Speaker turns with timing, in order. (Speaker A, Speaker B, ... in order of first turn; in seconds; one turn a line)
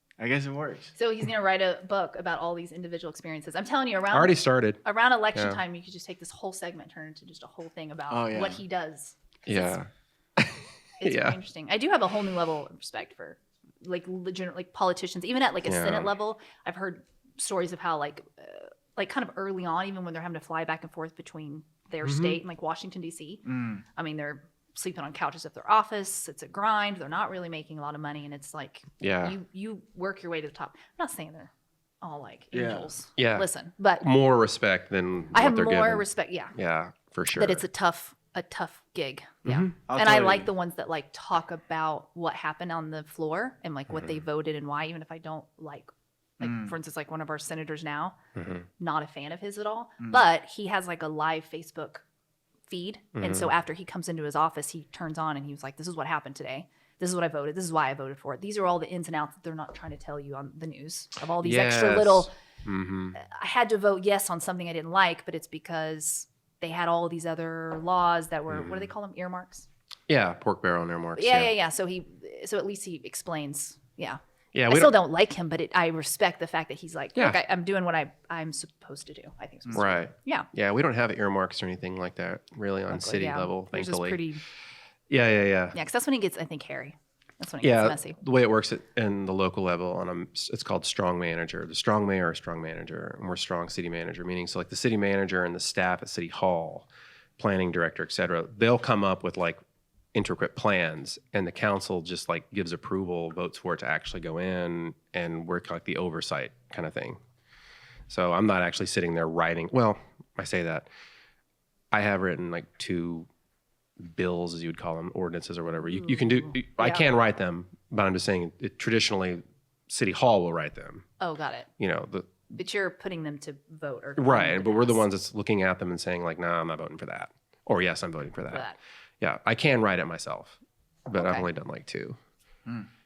Speaker A: 0.2-0.9
Speaker B: 1.0-9.8
Speaker C: 4.1-4.8
Speaker C: 5.3-5.6
Speaker A: 8.1-8.6
Speaker C: 9.5-11.4
Speaker B: 11.0-23.4
Speaker C: 15.7-16.1
Speaker C: 22.0-22.4
Speaker A: 23.5-23.8
Speaker B: 24.0-31.5
Speaker C: 29.0-29.4
Speaker B: 32.0-34.1
Speaker A: 32.5-32.9
Speaker C: 33.2-33.5
Speaker C: 34.0-37.7
Speaker B: 35.3-36.5
Speaker B: 37.4-48.2
Speaker C: 39.5-39.7
Speaker A: 39.9-40.5
Speaker C: 43.9-44.2
Speaker A: 46.4-46.7
Speaker C: 48.4-48.7
Speaker B: 48.8-52.0
Speaker B: 52.7-62.3
Speaker C: 53.2-53.5
Speaker C: 61.4-63.2
Speaker B: 63.1-69.7
Speaker C: 68.5-68.9
Speaker C: 70.1-71.5
Speaker B: 71.2-80.5
Speaker C: 74.5-75.0
Speaker C: 77.2-77.4
Speaker C: 79.7-84.2
Speaker B: 82.9-84.4
Speaker C: 85.1-85.8
Speaker B: 85.7-88.2
Speaker C: 87.6-99.6
Speaker C: 100.2-107.2
Speaker C: 108.1-110.9
Speaker C: 111.9-113.3
Speaker C: 114.0-121.0
Speaker B: 115.8-117.0
Speaker B: 121.2-121.7
Speaker C: 121.8-122.5
Speaker B: 122.6-125.0
Speaker C: 124.2-128.7
Speaker B: 128.5-128.8
Speaker C: 129.2-132.2
Speaker B: 131.2-131.5